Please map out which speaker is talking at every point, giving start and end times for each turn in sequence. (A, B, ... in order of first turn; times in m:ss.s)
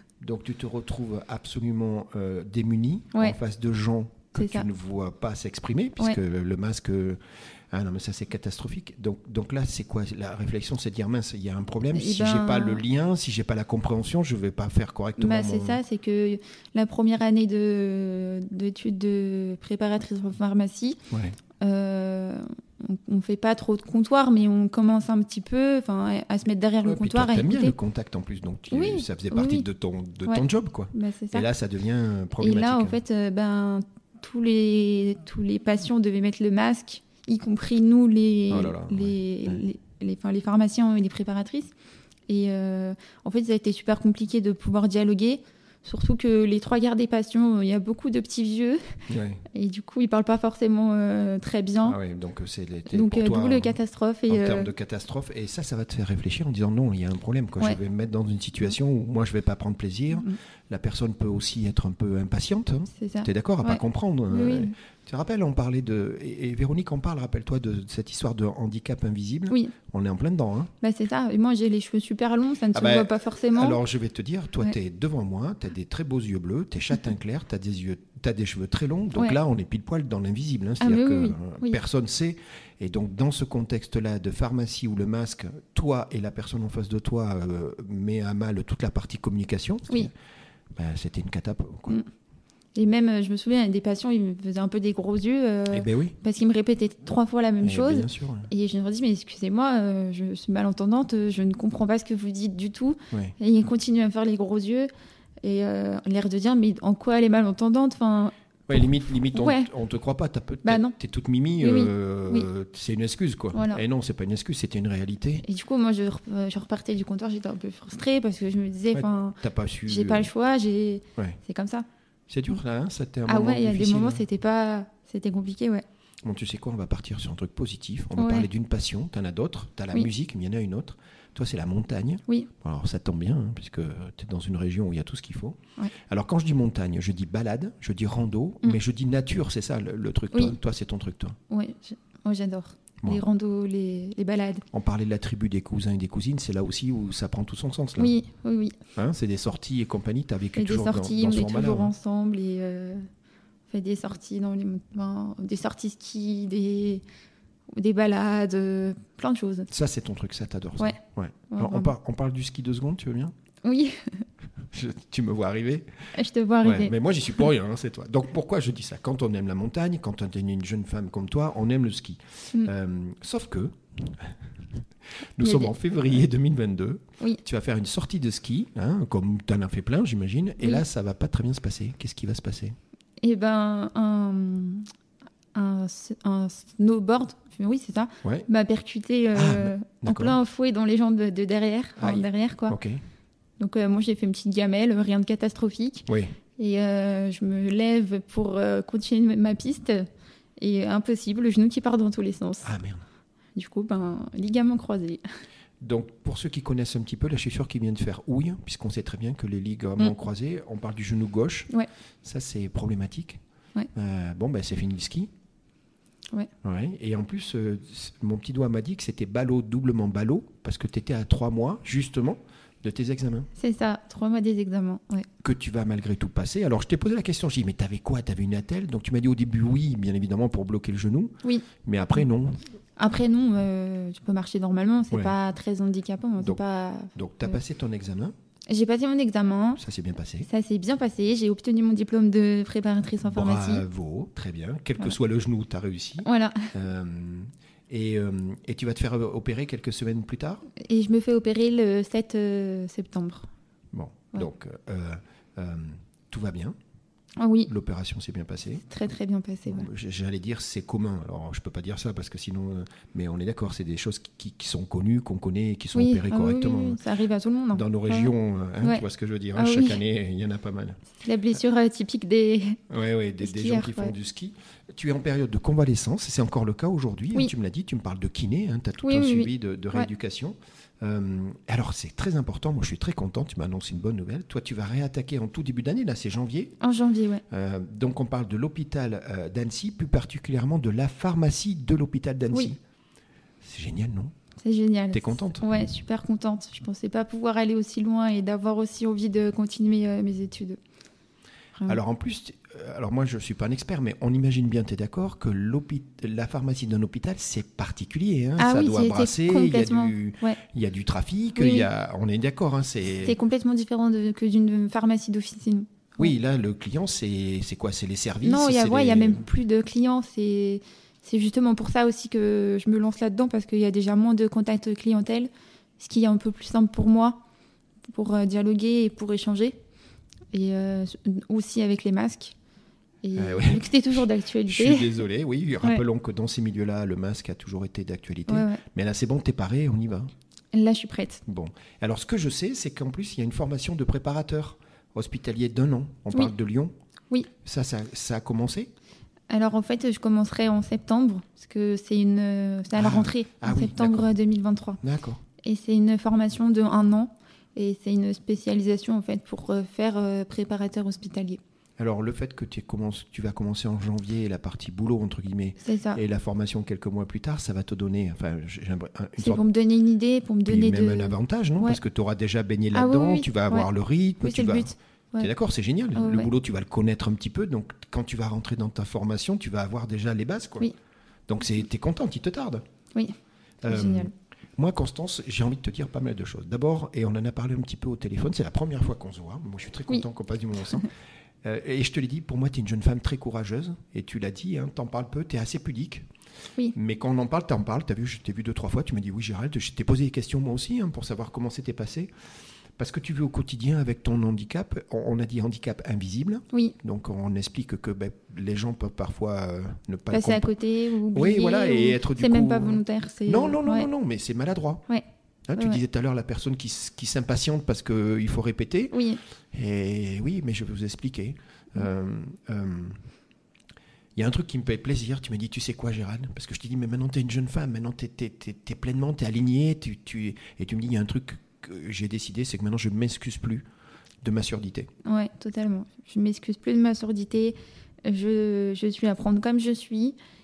0:00.2-0:15.8 A
0:04.3-0:04.7 B
0:11.9-0:12.8 B
0:15.2-0:21.0 B
0:21.1-0:21.4 A
0:21.6-0:27.7 B
0:26.8-0:33.0 A
0:28.7-0:29.6 B
0:30.2-0:31.5 B
0:32.4-0:41.7 B
0:38.5-0:39.6 A
0:42.3-0:48.9 B
0:49.1-0:49.4 A
0:49.5-0:52.0 B
0:51.8-0:53.8 A
0:52.9-0:54.7 B
0:54.3-1:10.7 A
1:02.9-1:04.7 B
1:10.8-1:13.8 B
1:12.7-1:30.1 A
1:20.8-1:21.8 B
1:30.7-1:32.0 A
1:32.7-1:44.9 B
1:35.7-1:36.2 A
1:37.6-1:38.5 A
1:45.4-1:49.7 B
1:48.7-1:55.4 A
1:50.6-1:51.0 B
1:51.6-1:52.5 B
1:53.5-1:53.8 B
1:55.4-2:01.8 B
1:58.9-2:00.3 A
2:02.3-2:04.2 A
2:03.3-2:05.8 B
2:06.2-2:21.4 A
2:08.2-2:08.5 B
2:20.3-2:20.6 B
2:21.5-2:24.6 B
2:24.7-2:28.1 A
2:28.0-2:28.8 B
2:29.0-2:31.9 A
2:30.6-2:33.1 B
2:33.7-2:37.0 B
2:37.7-2:39.7 B
2:39.7-2:43.3 A
2:41.5-2:41.9 B
2:43.6-2:44.2 B
2:44.7-2:46.1 A
2:46.1-2:46.9 B
2:46.6-3:02.8 A
2:55.4-2:55.7 B
3:03.2-3:04.9 B
3:05.5-3:12.8 B
3:09.3-3:10.4 A
3:12.0-3:13.0 A
3:13.6-3:16.1 B
3:16.1-3:16.3 A
3:16.6-3:22.7 B
3:22.6-3:23.0 A
3:23.5-3:25.2 B
3:25.8-3:31.7 A
3:32.2-3:33.4 A
3:33.9-3:35.3 A
3:36.6-3:43.5 A
3:43.6-3:45.3 B
3:45.4-3:52.6 A
3:53.0-3:57.1 B
3:57.1-3:58.3 A
3:58.7-3:59.8 B
3:59.8-4:00.5 A
4:00.4-4:03.8 B
4:03.2-4:10.6 A
4:06.2-4:06.7 B
4:10.8-4:13.5 B
4:13.9-4:16.8 A
4:17.4-4:17.7 B
4:17.7-4:18.8 A
4:18.9-4:19.9 B
4:19.7-4:27.0 A
4:25.9-4:29.0 B
4:27.7-4:31.0 A
4:29.6-4:30.0 B
4:31.2-4:32.8 B
4:32.9-4:46.7 A
4:33.4-4:34.1 B
4:39.0-4:40.1 B
4:46.8-4:47.4 B
4:47.5-4:52.8 A
4:53.6-4:54.3 A
4:54.6-5:00.8 B
4:55.1-4:55.6 A
5:01.9-5:13.4 A
5:08.6-5:10.6 B
5:11.6-5:11.9 B
5:13.2-5:16.3 B
5:16.2-5:19.4 A
5:18.4-5:27.4 B
5:28.1-5:29.8 B
5:30.5-5:32.5 B
5:33.2-5:35.2 B
5:33.3-5:40.3 A
5:38.5-5:38.8 B
5:40.7-5:41.4 B
5:41.4-5:46.9 A
5:47.6-5:48.9 A
5:49.5-5:55.0 B
5:52.9-5:54.3 A
5:55.0-5:55.4 A
5:55.6-6:01.6 B
6:02.0-6:09.6 A
6:05.8-6:06.2 B
6:09.4-6:12.0 B
6:10.6-6:20.9 A
6:12.9-6:13.9 B
6:14.4-6:15.5 B
6:16.1-6:16.5 B
6:21.5-6:22.8 A
6:23.1-6:24.3 B
6:23.8-6:31.1 A
6:31.6-6:36.2 A
6:36.9-6:42.3 A
6:43.0-6:50.7 A
6:50.3-6:54.1 B
6:51.3-6:55.0 A
6:55.7-6:59.1 A
6:55.8-6:56.0 B
6:59.1-6:59.4 B
6:59.7-7:03.2 A
7:04.4-7:13.8 A
7:14.4-7:15.1 A
7:15.2-7:20.4 B